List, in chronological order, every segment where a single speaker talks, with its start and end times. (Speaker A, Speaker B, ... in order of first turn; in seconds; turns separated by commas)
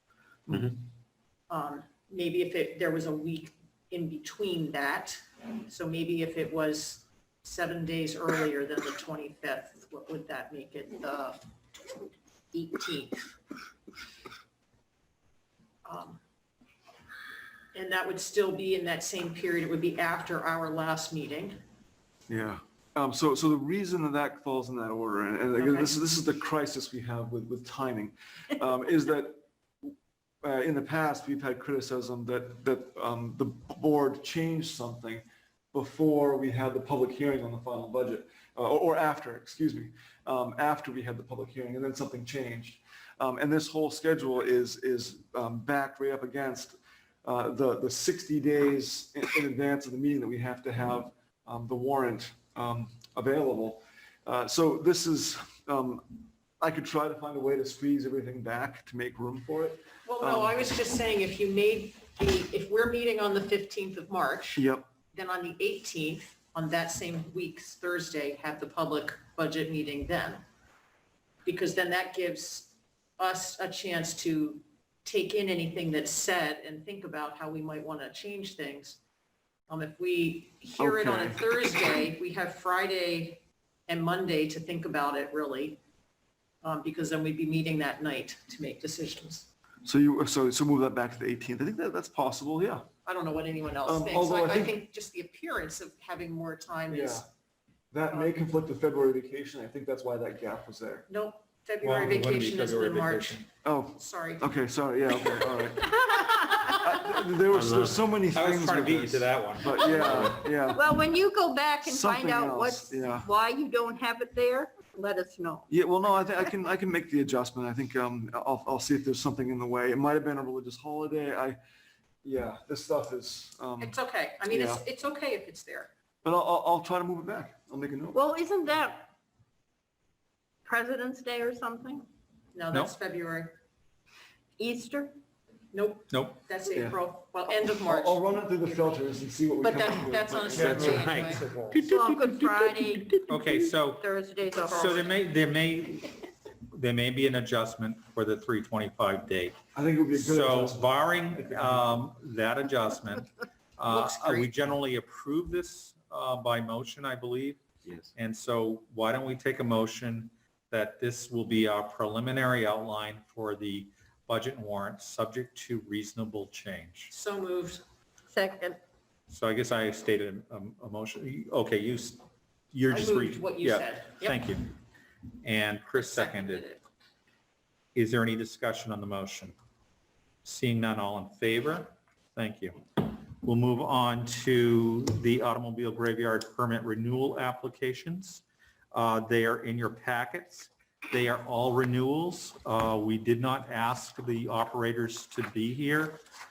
Speaker A: 1.5-11.4, Speaker A: 12.5-13.2, Speaker A: 15.8-16.2, Speaker A: 17.7-21.6, Speaker B: 22.3-60.6, Speaker A: 25.6-25.9, Speaker A: 60.0-70.4, Speaker B: 64.5-64.9, Speaker A: 71.4-79.0, Speaker A: 79.7-85.8, Speaker B: 80.8-81.4, Speaker A: 86.6-89.5, Speaker B: 89.8-92.8, Speaker A: 93.0-97.2, Speaker B: 93.8-94.8, Speaker B: 96.9-97.2, Speaker B: 97.9-101.0, Speaker A: 98.1-98.3, Speaker A: 101.1-104.5, Speaker C: 101.8-103.5, Speaker B: 103.6-111.1, Speaker D: 107.5-108.0, Speaker C: 108.3-110.2, Speaker E: 110.7-115.7, Speaker B: 111.8-113.3, Speaker B: 115.7-121.6, Speaker B: 122.2-124.0, Speaker A: 123.8-125.9, Speaker B: 124.5-124.8, Speaker B: 126.2-128.2, Speaker E: 128.2-129.1, Speaker E: 130.6-132.0, Speaker A: 132.5-133.6, Speaker E: 134.6-135.1, Speaker A: 135.7-139.0, Speaker C: 136.1-136.4, Speaker B: 137.8-141.2, Speaker A: 139.6-141.7, Speaker D: 140.5-143.4, Speaker E: 141.9-145.1, Speaker C: 143.3-144.1, Speaker C: 144.7-146.2, Speaker C: 146.7-149.5, Speaker B: 149.7-152.1, Speaker C: 150.1-157.6, Speaker A: 153.9-154.5, Speaker D: 157.8-158.1, Speaker C: 158.1-167.1, Speaker A: 167.1-167.8, Speaker E: 168.3-168.8, Speaker C: 169.3-172.2, Speaker C: 172.7-174.7, Speaker A: 172.9-174.5, Speaker C: 175.4-176.7, Speaker A: 175.9-176.8, Speaker C: 177.9-179.5, Speaker C: 180.4-196.2